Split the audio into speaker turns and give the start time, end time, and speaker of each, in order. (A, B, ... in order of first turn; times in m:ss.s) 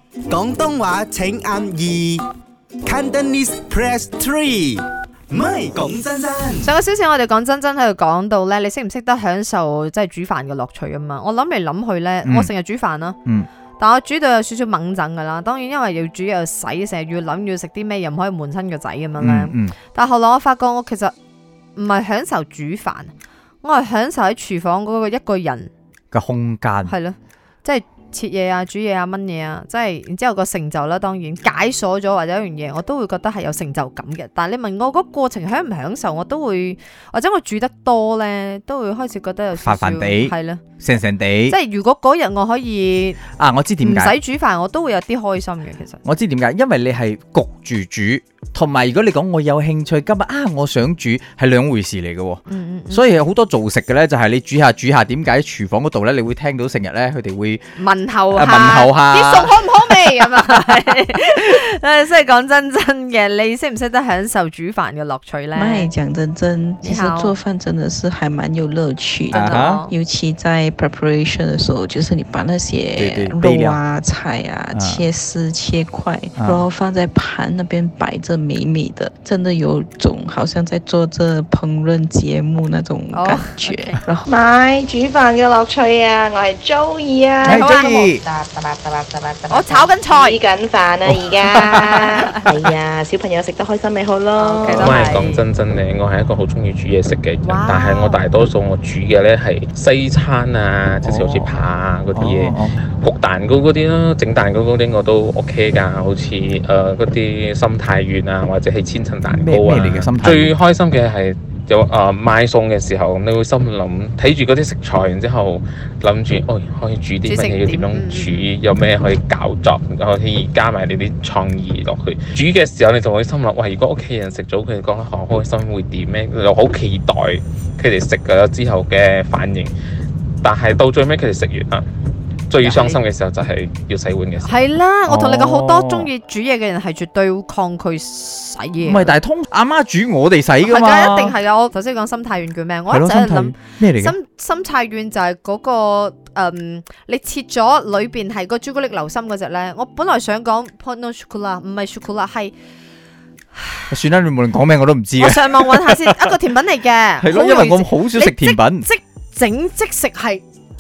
0:00.3-0:02.2 A
0:02.8-0:06.7 A
0:06.6-0:13.2 B
0:12.2-0:12.5 C
0:13.8-0:21.1 B
0:19.2-0:19.7 C
0:21.8-0:23.1 B
0:23.6-0:25.7 B
0:26.1-0:26.9 C
0:26.9-0:40.6 B
0:39.6-0:41.6 C
0:41.5-0:43.2 B
0:43.3-0:44.2 C
0:43.8-0:46.0 B
0:46.0-0:57.6 C
0:52.5-0:53.1 B
0:57.8-1:05.9 B
0:58.3-0:59.7 C
1:05.6-1:24.3 D
1:06.8-1:07.4 B
1:09.3-1:09.9 B
1:09.3-1:09.8 C
1:13.0-1:13.8 C
1:14.7-1:15.1 C
1:16.4-1:16.7 C
1:23.1-1:24.0 B
1:24.3-1:35.1 E
1:27.4-1:28.1 B
1:27.4-1:28.2 C
1:29.5-1:30.4 B
1:31.6-1:32.4 B
1:34.4-1:35.4 B
1:34.7-2:09.7 F
1:37.4-1:38.2 B
1:41.0-1:41.6 C
1:42.1-1:42.8 C
1:49.3-1:50.6 C
1:57.2-1:58.5 B
2:10.4-2:11.8 F
2:12.5-2:14.6 F
2:12.6-2:13.0 B
2:14.4-2:19.2 B
2:15.1-2:16.1 C
2:18.8-2:21.4 C
2:20.6-2:32.5 B
2:22.9-2:24.2 C
2:33.6-2:33.9 B
2:33.9-2:36.3 C
2:35.2-2:40.4 B
2:37.2-2:38.9 C